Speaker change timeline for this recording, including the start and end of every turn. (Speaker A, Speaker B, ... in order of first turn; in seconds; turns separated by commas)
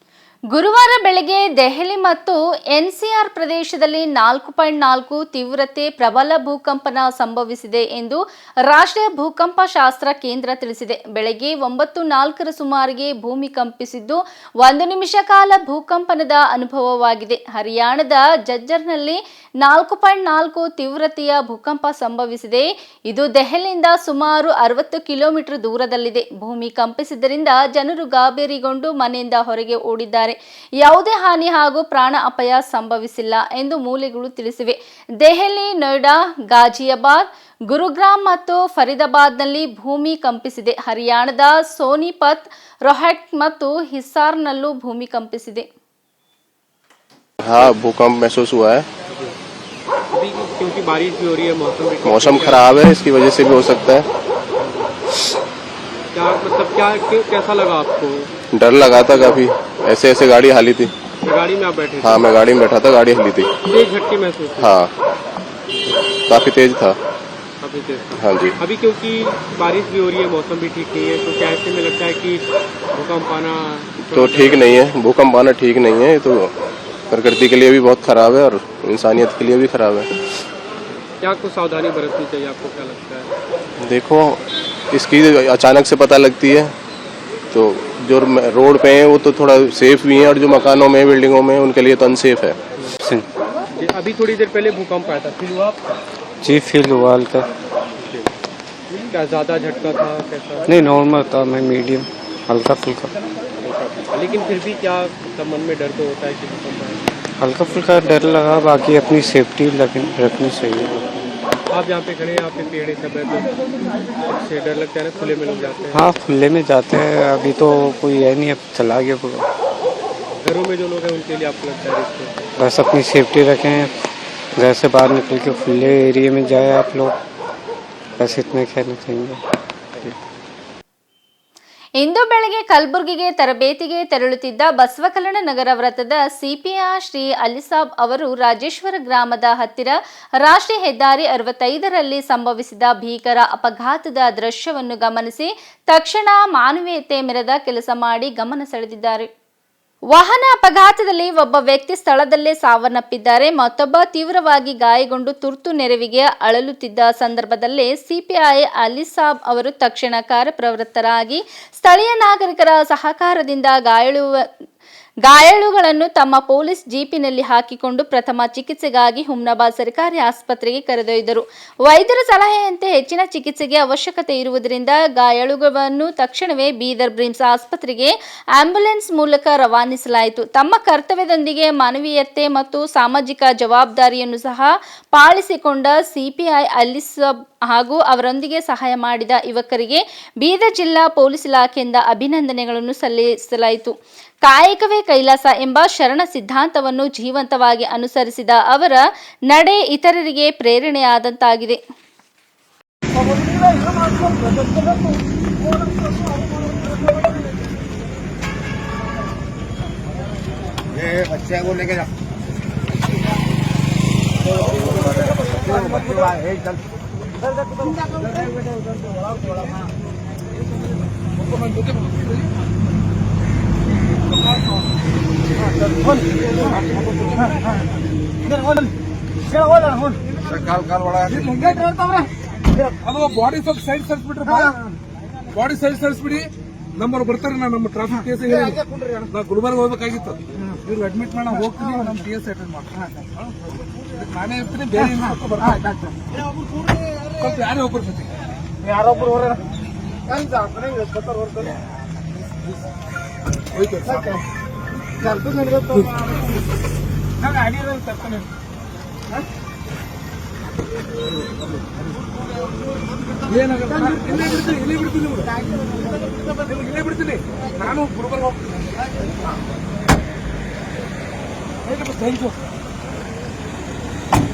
Speaker A: 0.5-45.7, Speaker B: 47.4-48.9, Speaker C: 50.1-52.8, Speaker B: 52.0-54.1, Speaker C: 54.6-54.9, Speaker C: 56.1-58.3, Speaker B: 58.5-60.9, Speaker C: 61.2-62.3, Speaker B: 62.0-63.5, Speaker C: 63.7-64.8, Speaker B: 64.6-64.9, Speaker B: 66.3-67.0, Speaker C: 67.6-72.4, Speaker B: 68.2-68.6, Speaker C: 72.9-74.8, Speaker B: 74.1-76.5, Speaker B: 77.1-80.1, Speaker C: 81.2-83.3, Speaker B: 83.8-86.7, Speaker B: 87.5-92.6, Speaker C: 93.7-95.8, Speaker D: 96.4-97.5, Speaker C: 98.0-98.3, Speaker C: 99.1-100.7, Speaker D: 100.7-103.1, Speaker C: 103.7-107.0, Speaker D: 107.4-111.2, Speaker C: 111.7-113.5, Speaker C: 114.2-116.2, Speaker D: 115.9-119.5, Speaker C: 120.4-122.4, Speaker D: 122.6-124.0, Speaker D: 124.6-127.2, Speaker D: 128.2-129.4, Speaker A: 132.0-149.3, Speaker A: 150.1-164.4, Speaker A: 165.2-201.8, Speaker E: 215.8-216.3, Speaker E: 221.4-222.5, Speaker E: 226.6-227.6, Speaker E: 230.7-232.2, Speaker E: 233.0-234.8, Speaker E: 235.5-243.1, Speaker E: 244.2-245.9, Speaker E: 247.4-248.3, Speaker E: 253.7-254.4, Speaker E: 255.4-256.3, Speaker E: 263.5-265.6, Speaker E: 266.6-268.7, Speaker E: 271.9-272.6